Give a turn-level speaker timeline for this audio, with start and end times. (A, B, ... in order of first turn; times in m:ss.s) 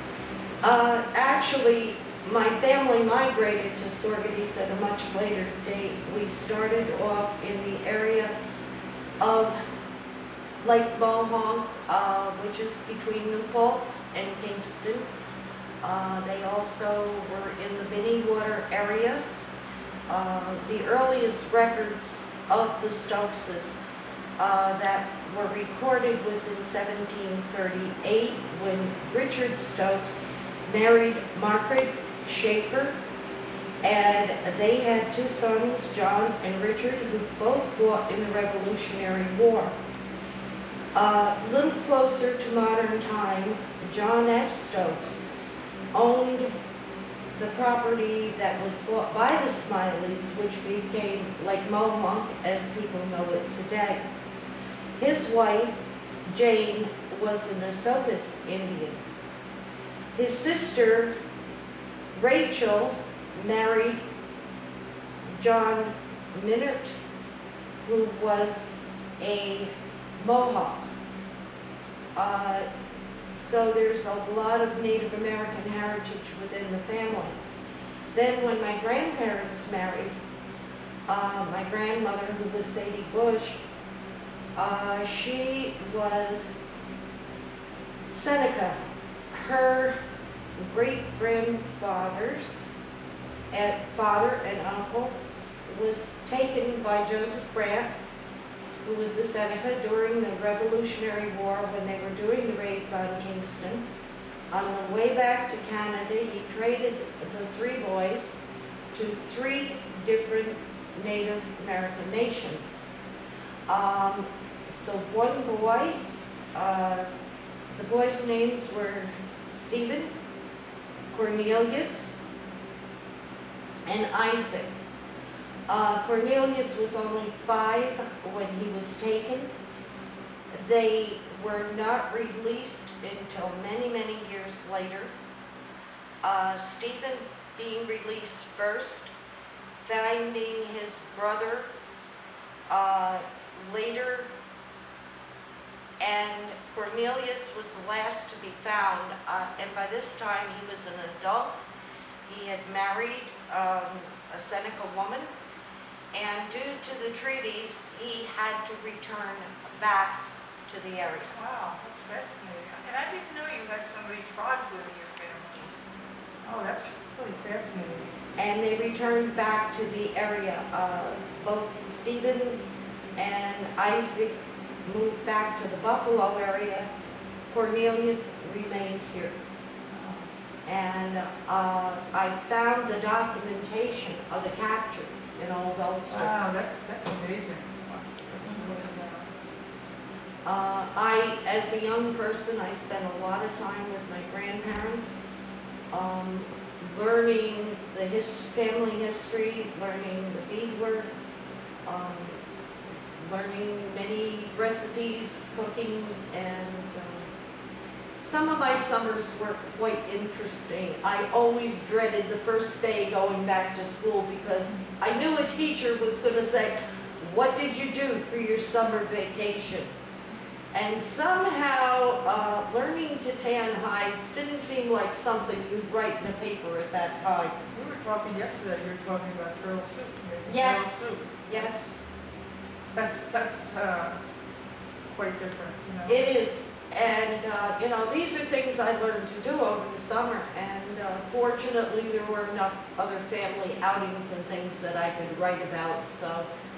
0:00.6-0:08.3 A
0:09.2-0:09.6 A
0:10.6-0:15.1 A
0:15.8-0:19.2 A
0:20.1-0:23.8 A
0:24.4-0:33.0 A
0:33.8-0:39.8 A
0:41.0-0:45.2 A
0:46.0-0:46.6 A
0:47.4-0:54.0 A
0:55.0-0:59.0 A
1:00.1-1:01.2 A
1:02.2-1:04.0 A
1:05.3-1:07.0 A
1:07.8-1:10.9 A
1:12.2-1:12.7 A
1:13.4-1:17.4 A
1:18.1-1:20.2 A
1:21.1-1:23.6 A
1:24.6-1:26.6 A
1:28.1-1:28.8 A
1:29.3-1:30.0 A
1:30.6-1:32.7 A
1:33.5-1:37.9 A
1:38.8-1:43.8 A
1:44.5-1:48.3 A
1:48.9-1:52.8 A
1:53.7-1:56.0 A
1:56.5-1:57.1 A
1:57.7-2:00.1 A
2:01.1-2:02.1 A
2:03.9-2:04.7 A
2:05.7-2:09.5 A
2:10.5-2:15.1 A
2:16.2-2:19.1 A
2:19.8-2:21.7 A
2:22.7-2:24.3 A
2:26.0-2:31.6 A
2:32.3-2:35.3 A
2:36.1-2:41.3 A
2:41.3-2:45.8 B
2:46.4-2:48.1 B
2:48.4-2:52.6 A
2:53.2-2:56.9 A
2:57.5-2:59.4 A
2:59.9-3:00.3 B
3:00.7-3:06.3 A
3:06.1-3:09.3 B
3:10.4-3:15.2 A
3:15.9-3:21.1 A
3:21.9-3:22.4 A
3:23.2-3:27.3 A
3:28.2-3:39.9 A
3:40.7-3:47.6 A
3:47.7-3:51.9 B
3:50.5-3:51.0 A
3:51.5-3:51.8 A
3:52.9-3:54.2 B
3:55.1-3:56.3 B
3:56.1-4:06.5 A